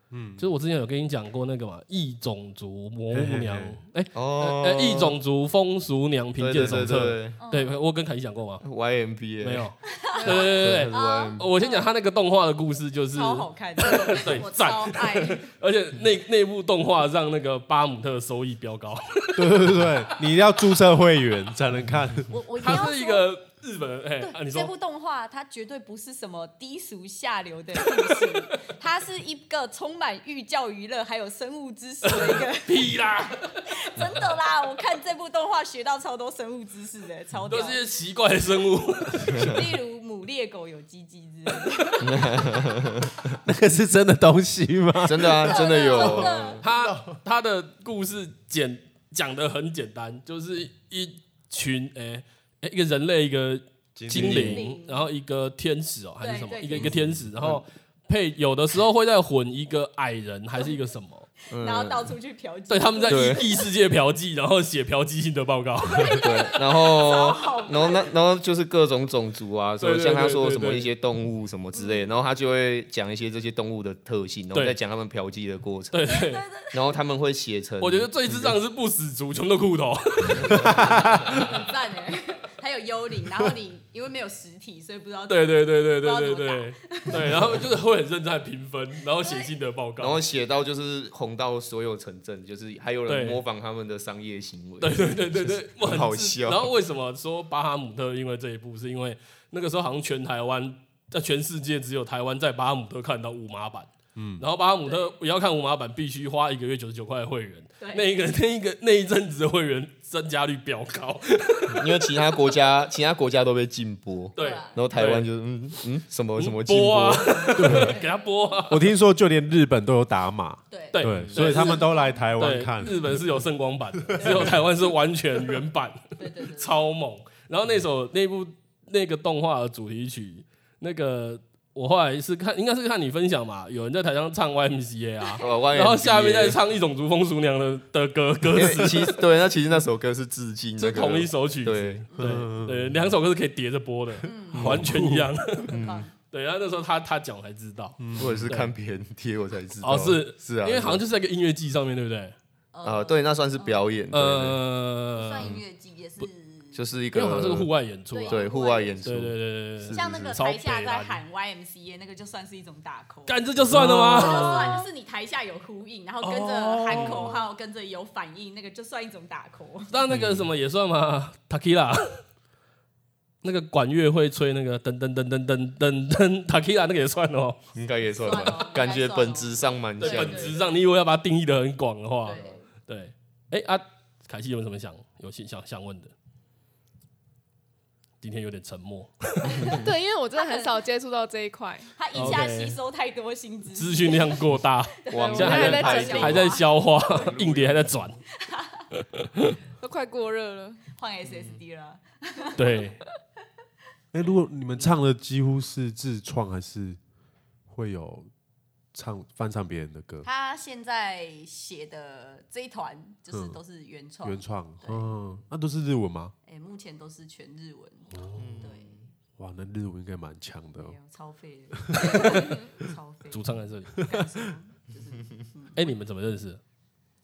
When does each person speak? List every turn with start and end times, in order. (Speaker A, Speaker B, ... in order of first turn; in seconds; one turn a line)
Speaker A: 0.1-0.5
Speaker B: 0.4-8.6
Speaker A: 3.1-3.8
Speaker C: 4.1-5.2
Speaker C: 6.4-7.4
Speaker D: 7.4-7.8
Speaker C: 8.6-9.7
Speaker B: 9.4-19.8
Speaker D: 9.8-11.9
Speaker C: 10.2-11.4
Speaker D: 13.1-15.5
Speaker A: 19.4-22.3
Speaker D: 22.3-23.3
Speaker B: 22.6-24.7
Speaker D: 24.2-37.8
Speaker B: 32.0-33.7
Speaker B: 37.5-39.5
Speaker D: 39.3-42.7
Speaker C: 42.0-43.3
Speaker A: 43.4-47.2
Speaker C: 45.0-46.6
Speaker D: 45.4-46.6
Speaker B: 46.0-61.3
Speaker A: 53.9-54.6
Speaker C: 54.1-54.6
Speaker D: 54.3-55.1
Speaker D: 56.2-57.0
Speaker C: 56.8-57.6
Speaker D: 61.5-63.6
Speaker C: 61.5-62.1
Speaker B: 62.7-66.5
Speaker C: 63.1-63.4
Speaker D: 65.8-68.1
Speaker C: 66.2-76.0
Speaker B: 69.8-70.9
Speaker D: 71.7-72.1
Speaker B: 74.5-74.8
Speaker B: 75.9-76.4
Speaker D: 76.1-77.0
Speaker C: 76.7-78.5
Speaker B: 77.8-81.5
Speaker C: 80.4-81.3
Speaker D: 80.6-87.6
Speaker B: 85.3-90.2
Speaker D: 89.2-89.5
Speaker C: 90.0-96.7
Speaker B: 93.1-93.4
Speaker B: 94.8-111.8
Speaker A: 104.2-104.4
Speaker D: 104.8-105.1
Speaker D: 107.8-108.1
Speaker C: 111.7-117.5
Speaker B: 114.3-115.3
Speaker D: 114.4-114.8
Speaker B: 116.3-118.9
Speaker D: 117.4-118.2
Speaker A: 117.5-118.0
Speaker A: 118.7-123.2
Speaker D: 120.7-122.2
Speaker B: 120.9-139.2
Speaker C: 121.1-121.4
Speaker A: 124.1-124.5
Speaker D: 124.2-124.5
Speaker D: 126.2-126.8
Speaker C: 135.4-136.6
Speaker C: 138.5-142.1
Speaker B: 140.8-145.7
Speaker D: 142.1-142.4
Speaker A: 142.2-143.2
Speaker D: 144.2-144.8
Speaker A: 144.5-145.3
Speaker C: 145.7-146.1
Speaker D: 145.7-146.1
Speaker B: 146.3-148.7
Speaker A: 148.0-148.5
Speaker C: 148.2-151.0
Speaker B: 149.8-152.3
Speaker D: 152.7-153.8
Speaker C: 152.8-154.6
Speaker B: 154.1-155.6
Speaker D: 155.1-156.8
Speaker C: 156.7-157.7
Speaker B: 157.1-158.5
Speaker D: 158.1-159.1
Speaker C: 158.3-161.0
Speaker B: 159.0-161.0
Speaker D: 159.9-163.5
Speaker B: 163.3-164.8
Speaker A: 163.7-164.7
Speaker D: 164.0-170.0
Speaker B: 166.2-167.4
Speaker B: 169.9-172.2
Speaker C: 170.1-170.4
Speaker B: 173.4-177.6
Speaker C: 177.7-180.5
Speaker D: 178.2-180.6
Speaker B: 180.0-186.1
Speaker D: 182.2-182.7
Speaker B: 188.2-189.8
Speaker D: 189.4-190.8
Speaker E: 189.7-191.9
Speaker D: 191.9-194.5
Speaker B: 192.1-192.8
Speaker B: 193.8-198.2
Speaker D: 195.0-196.7
Speaker C: 195.1-198.0
Speaker E: 195.1-196.6
Speaker D: 198.3-198.9
Speaker B: 198.9-199.6
Speaker E: 199.8-200.9
Speaker D: 200.9-202.8
Speaker C: 201.2-201.6
Speaker B: 202.6-203.0
Speaker A: 204.1-207.0
Speaker A: 207.7-208.3
Speaker A: 208.9-210.2
Speaker D: 210.2-215.1
Speaker A: 213.3-213.6
Speaker A: 214.2-216.3
Speaker D: 216.4-219.0
Speaker A: 218.1-218.7
Speaker C: 218.3-219.0
Speaker A: 219.4-221.0
Speaker D: 220.7-225.9
Speaker A: 221.7-222.9
Speaker B: 223.3-224.0
Speaker A: 224.0-224.4
Speaker B: 225.8-226.6